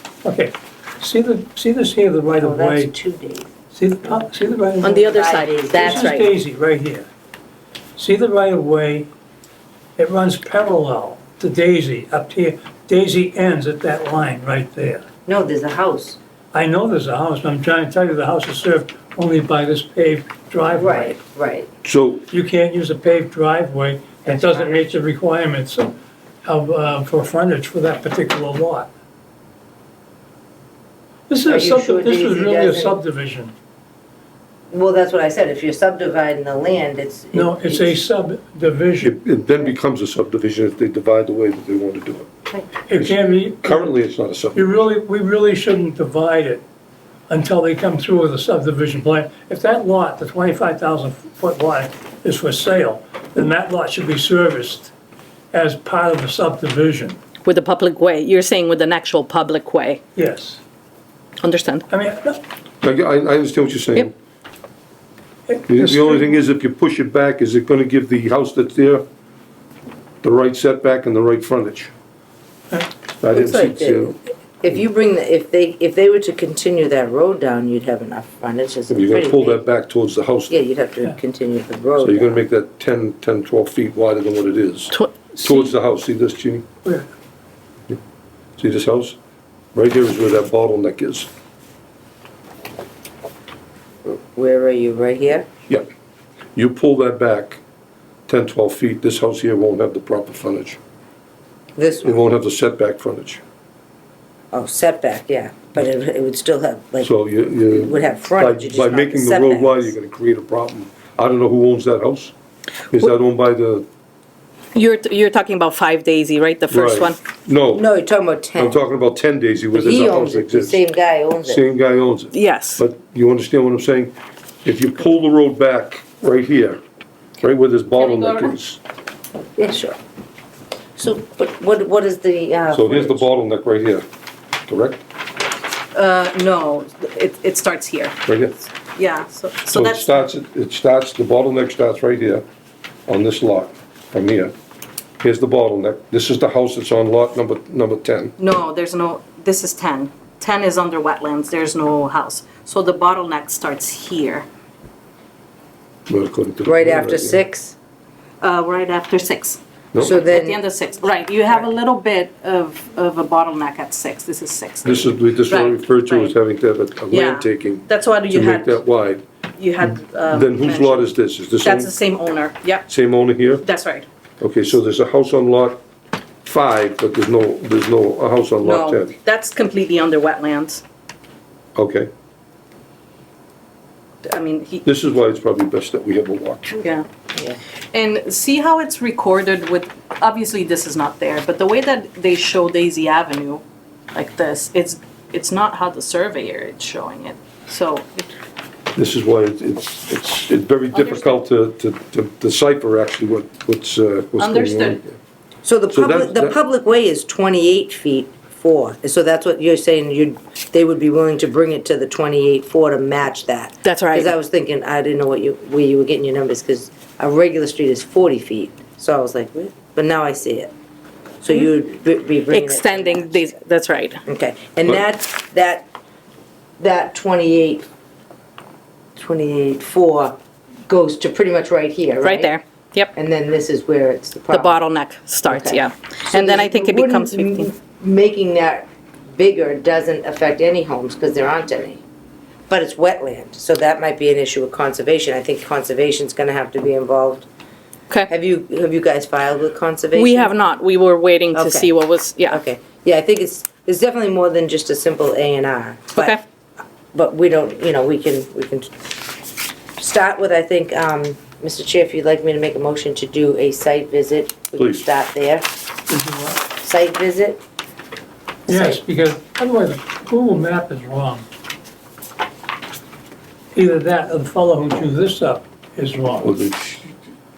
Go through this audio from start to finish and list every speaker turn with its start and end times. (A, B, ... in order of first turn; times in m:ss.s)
0:00.2-0:02.9 A
0:02.4-0:03.5 B
0:03.7-0:07.1 A
0:04.8-0:06.3 C
0:04.9-0:06.1 B
0:08.0-0:09.1 A
0:10.0-0:15.0 A
0:15.3-0:16.2 B
0:16.5-0:21.2 A
0:20.7-0:21.7 B
0:21.8-0:22.3 D
0:22.3-0:25.9 A
0:24.2-0:24.8 B
0:26.4-0:28.9 A
0:31.3-0:33.5 A
0:31.5-0:33.0 B
0:34.7-0:38.0 B
0:37.3-0:39.1 A
0:39.0-0:42.3 D
0:42.9-0:43.9 A
0:43.0-0:44.8 D
0:44.6-0:46.6 A
0:47.3-0:54.9 A
0:55.5-0:57.2 A
0:57.4-1:00.0 C
1:00.2-1:00.6 A
1:01.4-1:01.9 C
1:01.9-1:02.4 A
1:02.8-1:04.1 D
1:05.5-1:06.3 A
1:05.7-1:09.0 D
1:10.2-1:11.9 D
1:13.2-1:14.2 D
1:13.3-1:19.6 B
1:18.9-1:20.5 D
1:20.5-1:22.4 B
1:22.0-1:26.6 D
1:24.9-1:25.7 C
1:28.6-1:29.2 D
1:29.7-1:31.3 D
1:34.0-1:35.4 B
1:36.6-1:37.6 D
1:38.3-1:40.8 D
1:41.8-1:42.2 B
1:42.0-1:43.4 D
1:44.5-1:49.9 B
1:47.0-1:52.3 D
1:52.9-1:53.9 D
1:54.8-1:57.2 C
1:56.7-1:57.8 D
1:57.7-1:58.8 B
1:58.6-2:00.8 D
1:59.7-2:01.6 B
2:01.4-2:06.8 D
2:02.3-2:02.8 C
2:07.4-2:08.8 D
2:08.0-2:08.5 C
2:09.6-2:10.0 B
2:11.0-2:13.2 B
2:12.7-2:14.0 D
2:14.7-2:15.0 D
2:15.9-2:18.2 C
2:18.3-2:18.6 D
2:18.9-2:20.2 C
2:19.7-2:22.4 D
2:23.1-2:24.5 D
2:25.2-2:28.4 D
2:28.4-2:34.5 C
2:36.1-2:37.4 D
2:36.6-2:37.7 B
2:38.4-2:39.6 C
2:39.9-2:40.2 D
2:40.0-2:40.6 B
2:40.1-2:46.3 C
2:44.8-2:49.2 D
2:47.1-2:48.8 C
2:49.6-2:52.9 C
2:50.3-2:51.9 D
2:52.9-2:53.6 D
2:53.6-2:54.0 C
2:54.4-2:55.8 D
2:56.4-2:59.1 D
2:58.6-3:00.8 C
3:01.7-3:02.1 D
3:04.2-3:04.8 C
3:04.8-3:06.8 D
3:06.8-3:07.0 C
3:07.9-3:18.3 C
3:18.9-3:25.2 D
3:20.9-3:21.4 C
3:24.4-3:25.0 C
3:25.6-3:40.7 B
3:25.9-3:26.6 D
3:33.8-3:34.3 C
3:41.4-3:43.5 B
3:42.5-3:44.2 C
3:44.2-3:45.8 B
3:46.8-3:47.8 B
3:49.2-3:50.4 B
3:50.9-3:52.6 B
3:52.2-3:53.1 C
3:53.1-3:54.8 B
3:54.5-3:57.7 C
3:55.5-4:02.0 B
4:02.7-4:07.4 B
4:08.3-4:10.5 B
4:10.1-4:12.6 C
4:11.5-4:11.9 B
4:12.5-4:16.4 B
4:17.1-4:19.0 B
4:20.0-4:25.7 B
4:24.8-4:25.1 D
4:26.1-4:26.6 A
4:26.8-4:27.6 B
4:28.7-4:31.4 A
4:28.7-4:29.0 B
4:33.7-4:36.5 A
4:36.4-4:37.1 D